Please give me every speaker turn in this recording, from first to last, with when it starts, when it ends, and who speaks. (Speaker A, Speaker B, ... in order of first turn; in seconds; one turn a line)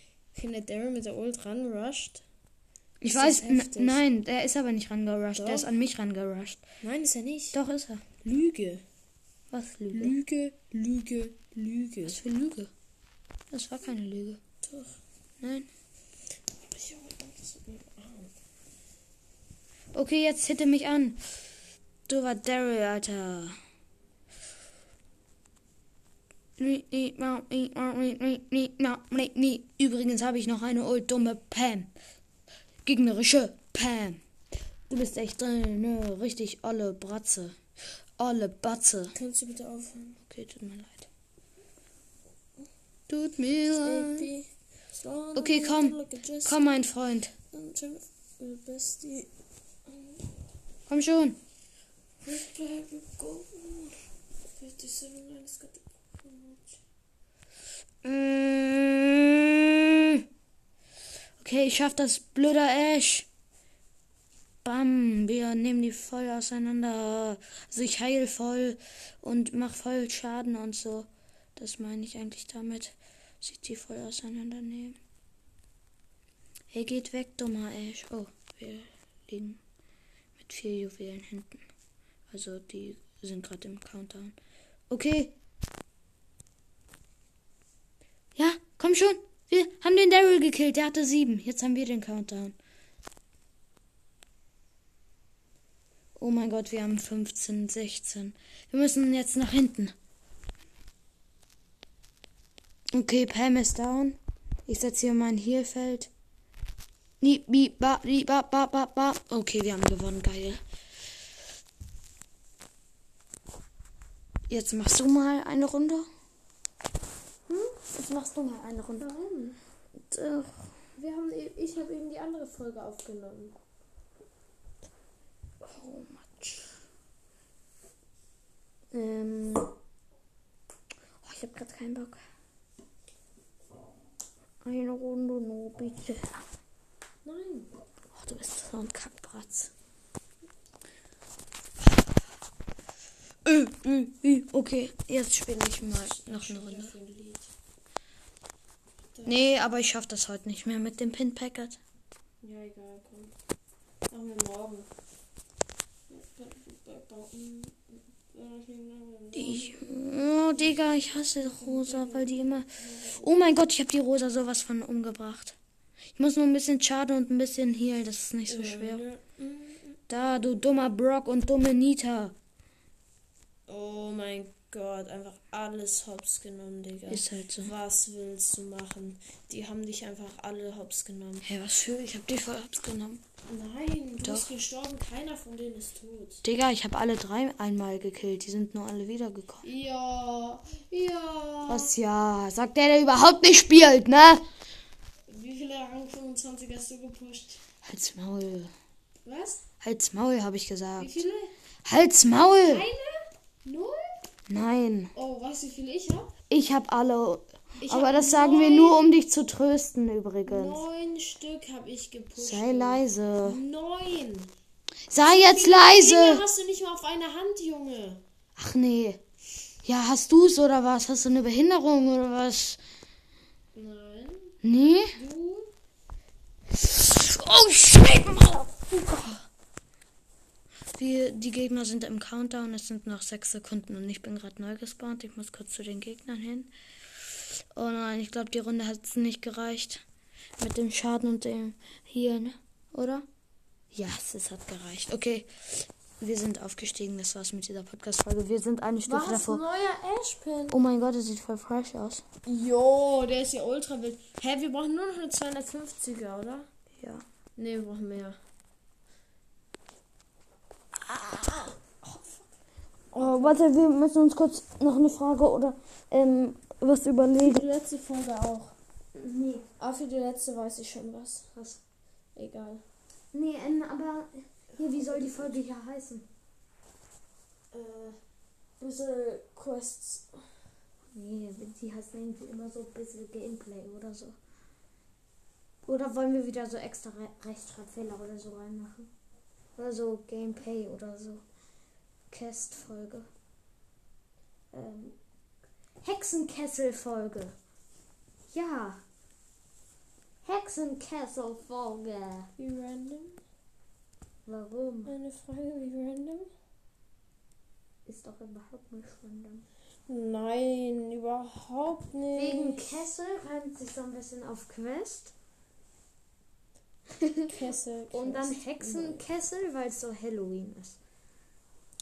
Speaker A: 0.3-2.2
Speaker B: 3.0-6.6
Speaker A: 3.0-4.0
Speaker A: 5.3-5.7
Speaker A: 6.8-7.5
Speaker B: 7.5-8.1
Speaker A: 8.2-8.8
Speaker B: 9.5-10.2
Speaker A: 9.9-12.2
Speaker B: 12.1-12.7
Speaker B: 13.5-14.4
Speaker A: 14.6-15.0
Speaker B: 15.4-15.7
Speaker A: 16.6-18.3
Speaker B: 19.9-21.2
Speaker B: 22.1-23.6
Speaker B: 26.6-31.9
Speaker B: 32.8-34.2
Speaker B: 34.9-37.6
Speaker B: 38.2-39.1
Speaker A: 39.1-40.2
Speaker B: 40.2-41.1
Speaker B: 43.1-44.3
Speaker A: 43.8-46.8
Speaker B: 45.3-47.3
Speaker A: 47.5-49.3
Speaker A: 49.9-50.2
Speaker B: 50.9-51.4
Speaker A: 52.2-54.0
Speaker A: 54.5-56.8
Speaker B: 58.0-60.2
Speaker B: 61.4-63.3
Speaker B: 64.6-75.0
Speaker B: 76.7-79.6
Speaker B: 80.4-81.6
Speaker B: 82.3-84.3
Speaker B: 84.9-85.3
Speaker B: 88.3-92.5
Speaker B: 96.2-99.9
Speaker B: 102.9-106.1
Speaker B: 107.2-110.6
Speaker B: 114.5-116.1
Speaker A: 117.5-117.8
Speaker B: 117.9-119.1
Speaker A: 119.0-119.6
Speaker B: 120.0-120.8
Speaker A: 121.0-123.5
Speaker B: 125.6-126.8
Speaker B: 128.9-129.7
Speaker B: 131.2-132.2
Speaker B: 134.6-136.4
Speaker A: 137.2-137.7
Speaker B: 138.1-139.7
Speaker B: 143.4-146.9
Speaker A: 145.8-147.5
Speaker B: 149.2-151.8
Speaker A: 152.4-153.3
Speaker A: 154.1-154.9
Speaker A: 156.1-160.1
Speaker B: 159.3-165.6
Speaker A: 161.4-163.5
Speaker B: 166.1-169.0
Speaker A: 168.5-170.0
Speaker B: 170.1-172.3
Speaker A: 173.7-181.4
Speaker B: 177.1-177.7
Speaker B: 181.4-183.2
Speaker A: 183.5-186.4
Speaker B: 184.2-184.5
Speaker B: 186.4-189.6
Speaker A: 189.6-191.9
Speaker B: 191.7-194.4
Speaker A: 195.3-197.6
Speaker B: 197.8-198.7
Speaker A: 199.2-199.6
Speaker B: 199.8-201.1
Speaker A: 201.0-201.5
Speaker B: 201.8-202.8
Speaker A: 202.6-204.2
Speaker B: 204.5-205.1
Speaker A: 205.1-206.3
Speaker B: 206.5-210.8
Speaker A: 207.8-209.0
Speaker A: 210.4-214.5
Speaker B: 212.4-213.6
Speaker B: 215.1-216.4
Speaker A: 215.2-218.2
Speaker B: 218.6-219.2
Speaker B: 219.8-222.8
Speaker A: 223.7-224.6
Speaker B: 224.6-225.2
Speaker A: 225.1-225.7
Speaker B: 226.7-229.5
Speaker B: 230.9-236.7
Speaker B: 237.3-240.0
Speaker B: 240.6-243.2
Speaker B: 243.9-249.6
Speaker A: 249.0-250.8
Speaker B: 250.7-252.2
Speaker A: 252.4-256.7
Speaker B: 257.0-257.2
Speaker A: 257.6-258.4
Speaker B: 261.1-262.0
Speaker A: 262.0-262.4
Speaker B: 263.1-267.6
Speaker A: 263.2-263.6
Speaker A: 267.4-268.8
Speaker B: 269.1-269.7
Speaker A: 269.8-271.5
Speaker A: 272.3-272.8
Speaker B: 273.3-276.2
Speaker A: 274.9-275.6
Speaker A: 277.7-278.2
Speaker A: 278.8-280.5
Speaker B: 281.1-284.4
Speaker B: 285.9-289.1
Speaker B: 289.8-291.4
Speaker B: 292.3-293.3
Speaker B: 294.7-295.1
Speaker B: 296.0-297.5
Speaker B: 298.5-299.0
Speaker B: 300.4-302.5
Speaker A: 302.6-303.4
Speaker B: 304.4-305.1
Speaker A: 305.1-306.5
Speaker B: 308.1-309.6
Speaker A: 310.1-312.9
Speaker B: 312.3-315.3
Speaker B: 317.2-317.5
Speaker A: 317.5-319.2
Speaker B: 318.1-321.0